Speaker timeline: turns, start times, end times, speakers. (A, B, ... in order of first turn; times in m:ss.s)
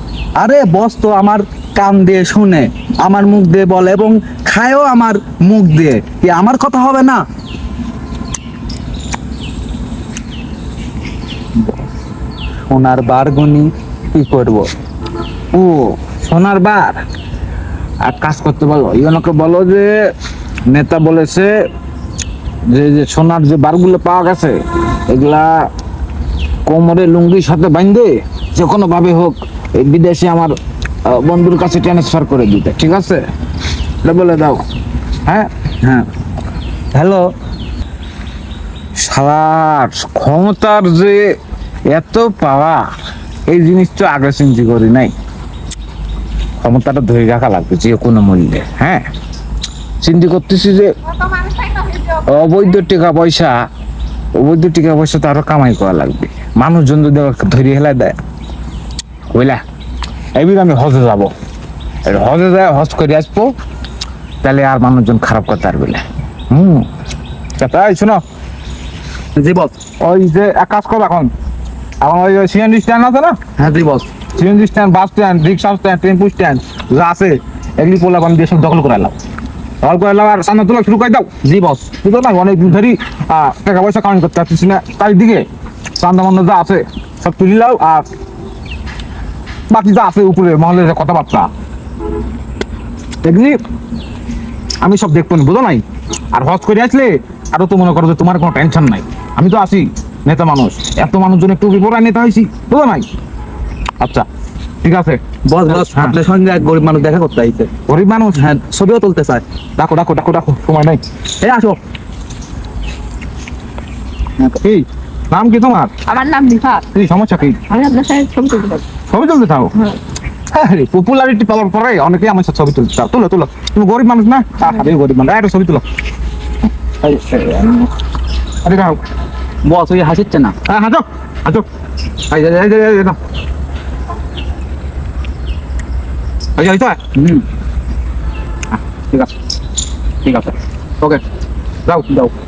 0:00.4-0:07.2 A
0:12.7-0:14.7 A
0:15.5-0:17.0 B
0:18.0-0:20.1 B
0:20.7-0:21.6 B
0:22.7-0:25.7 B
0:26.7-0:33.2 B
0:34.0-0:34.6 B
0:35.8-0:36.1 A
0:36.9-0:37.3 A
0:39.0-0:41.4 B
0:41.9-0:42.9 B
0:43.5-0:45.1 B
0:46.6-0:49.1 B
0:50.0-0:51.4 B
0:51.9-0:53.7 B
0:54.4-0:58.2 B
0:59.3-0:59.6 B
1:00.4-1:01.3 B
1:02.0-1:03.6 B
1:04.4-1:06.9 B
1:07.6-1:08.2 B
1:09.4-1:09.8 A
1:10.0-1:11.3 B
1:12.0-1:13.4 B
1:13.6-1:14.1 A
1:14.3-1:19.2 B
1:19.8-1:21.3 B
1:21.4-1:21.9 A
1:21.9-1:25.5 B
1:26.0-1:28.1 B
1:29.7-1:31.5 B
1:33.2-1:33.6 B
1:34.8-1:43.1 B
1:44.0-1:44.3 B
1:44.8-1:46.2 B
1:45.5-1:47.7 A
1:47.9-1:48.4 B
1:48.4-1:49.4 A
1:49.8-1:51.0 B
1:51.4-1:51.8 A
1:54.6-1:55.9 B
1:56.1-1:56.8 C
1:56.8-1:57.6 B
1:57.7-1:58.8 C
1:59.1-1:59.9 B
2:00.5-2:05.8 B
2:07.0-2:07.9 B
2:08.6-2:09.0 B
2:09.6-2:10.6 A
2:10.6-2:11.7 B
2:12.3-2:13.2 B
2:16.6-2:17.0 B
2:17.2-2:17.4 A
2:20.3-2:20.5 B